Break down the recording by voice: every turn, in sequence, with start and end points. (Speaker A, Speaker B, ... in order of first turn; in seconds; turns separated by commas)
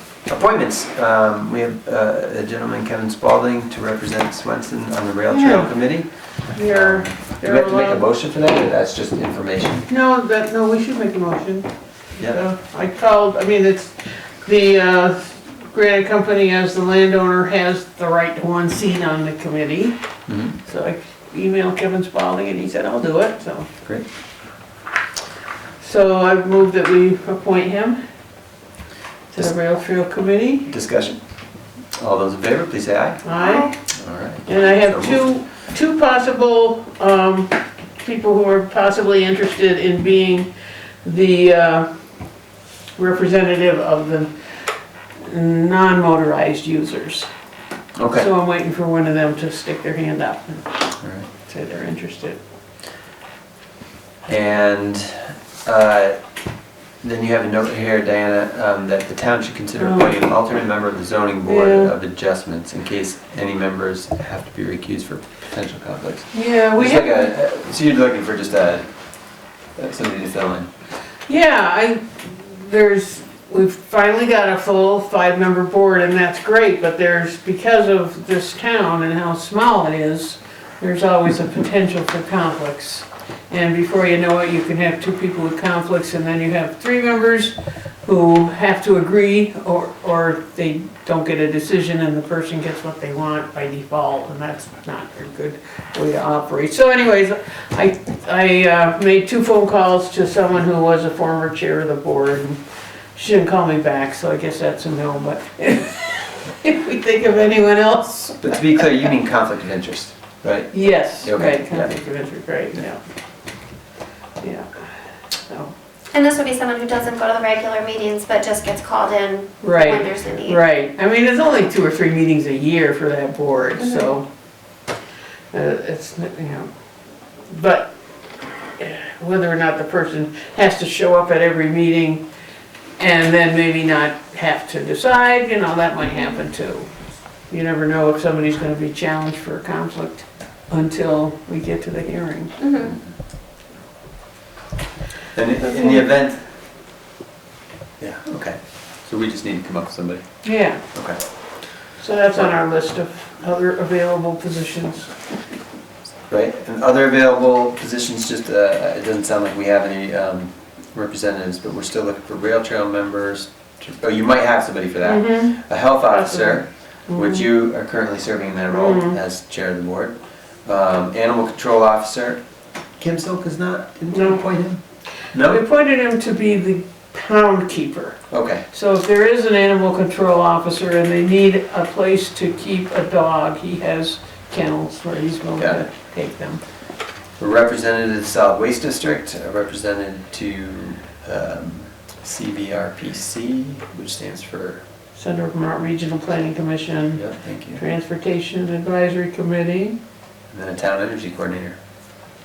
Speaker A: 0.3-9.8, Speaker B: 5.3-5.7, Speaker B: 6.5-8.1, Speaker B: 9.9-11.7, Speaker B: 12.2-19.9, Speaker A: 20.3-20.5, Speaker B: 20.6-23.7, Speaker B: 25.8-28.0, Speaker B: 29.3-30.7, Speaker A: 30.7-31.2, Speaker A: 32.0-33.3, Speaker B: 33.2-33.7, Speaker C: 33.4-33.7, Speaker A: 33.9-35.3, Speaker B: 34.5-40.5, Speaker B: 41.0-41.9, Speaker B: 43.0-44.6, Speaker B: 45.2-47.3, Speaker A: 48.0-48.3, Speaker B: 48.1-50.8, Speaker A: 51.0-51.3, Speaker B: 51.4-52.4, Speaker A: 54.3-56.2, Speaker A: 57.0-68.8, Speaker B: 59.8-60.3, Speaker B: 61.4-61.9, Speaker B: 66.3-67.3, Speaker A: 69.8-70.7, Speaker B: 71.3-102.6, Speaker B: 103.1-108.6, Speaker A: 108.4-111.9, Speaker B: 110.7-113.0, Speaker B: 114.4-114.7, Speaker B: 115.5-115.7, Speaker C: 116.1-120.6, Speaker B: 119.6-124.3, Speaker B: 125.5-126.7, Speaker B: 127.5-127.9, Speaker B: 128.8-132.2, Speaker B: 133.0-136.9, Speaker B: 137.5-142.7, Speaker A: 142.8-143.1, Speaker A: 145.3-146.4, Speaker B: 145.7-146.0, Speaker A: 148.0-151.2, Speaker B: 150.4-150.8, Speaker B: 152.0-155.2, Speaker A: 156.3-172.4, Speaker B: 165.0-167.4, Speaker B: 168.7-169.2, Speaker A: 173.0-174.8, Speaker B: 174.1-174.4, Speaker A: 175.3-175.6, Speaker B: 175.3-178.2, Speaker A: 178.3-178.6, Speaker B: 178.7-186.6, Speaker A: 185.6-185.8, Speaker A: 187.4-194.8, Speaker B: 195.1-200.0, Speaker A: 197.2-197.8, Speaker A: 200.5-201.8